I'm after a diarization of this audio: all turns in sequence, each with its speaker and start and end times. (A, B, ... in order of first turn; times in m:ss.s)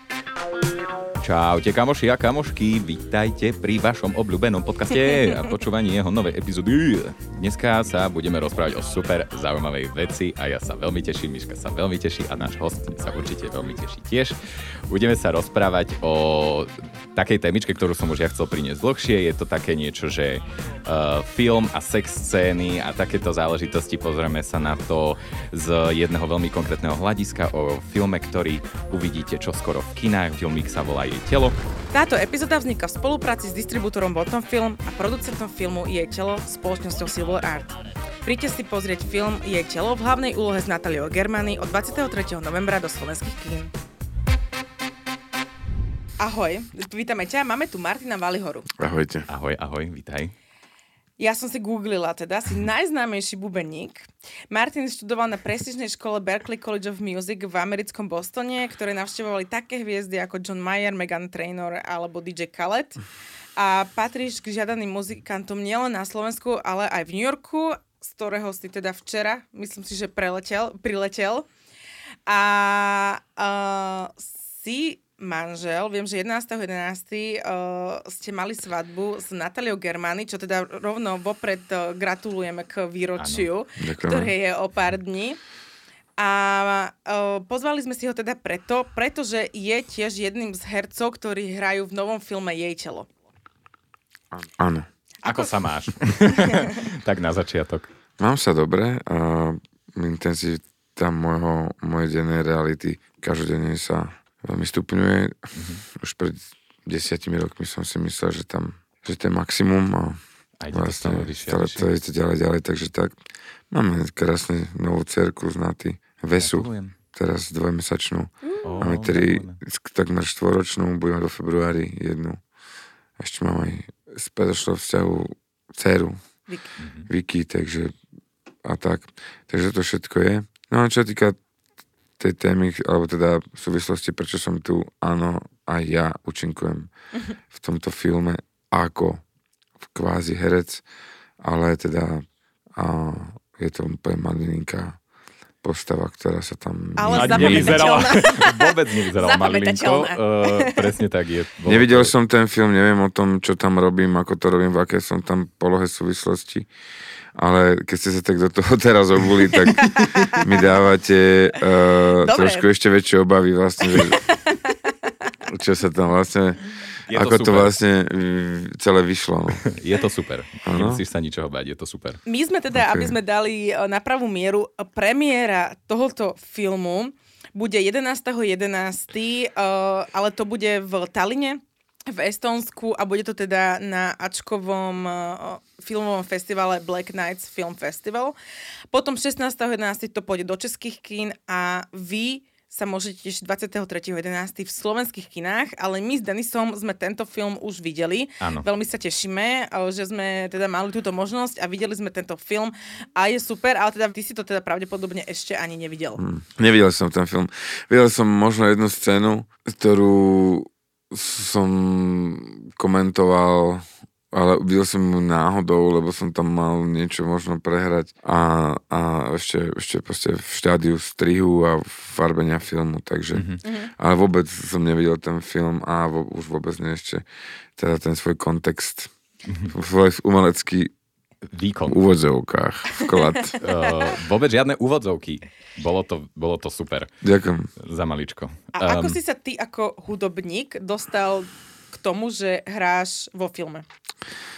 0:01.2-0:14.4 A
0:14.9-0:31.6 A
0:31.9-0:43.7 B
0:46.2-0:48.7 B
0:48.8-0:49.3 C
0:49.3-0:50.3 A
0:51.2-1:03.0 B
1:03.6-1:11.5 B
1:12.3-1:25.4 B
1:23.2-1:23.5 A
1:23.8-1:24.3 C
1:26.2-1:33.1 B
1:34.6-1:34.9 C
1:35.2-1:35.5 B
1:35.2-1:37.9 A
1:36.4-1:36.7 B
1:38.2-1:50.2 C
1:45.6-1:45.8 A
1:50.6-1:51.9 A
1:50.7-1:53.1 C
1:53.7-2:02.4 C
1:56.4-1:56.9 A
1:58.4-1:58.7 B
1:58.6-1:59.6 A
2:03.2-2:06.2 C
2:06.8-2:07.1 A
2:07.1-2:07.9 C
2:08.6-2:11.4 C
2:12.2-2:16.9 C
2:17.5-2:19.2 C
2:19.9-2:20.8 C
2:21.4-2:22.2 C
2:22.8-2:25.0 C
2:25.6-2:28.0 C
2:27.0-2:30.9 B
2:27.1-2:32.1 A
2:31.7-2:36.7 C
2:37.4-2:44.2 C
2:39.6-2:40.5 B
2:42.2-2:42.6 B
2:43.9-2:45.3 B
2:45.5-2:49.6 C
2:47.1-2:47.8 A
2:49.7-2:52.2 A
2:50.7-2:51.0 C
2:52.3-3:01.6 B
2:52.8-2:53.1 C
3:02.1-3:08.4 B
3:08.9-3:26.2 B
3:26.2-3:47.2 C
3:43.3-3:43.6 A
3:43.6-3:43.9 B
3:47.8-3:49.1 C
3:49.5-3:49.7 A
3:49.7-3:50.9 C
3:51.5-3:52.0 A
3:51.9-3:53.6 C
3:53.6-3:57.1 A
3:57.2-3:57.7 C
3:57.8-3:59.2 A
3:58.7-4:03.8 B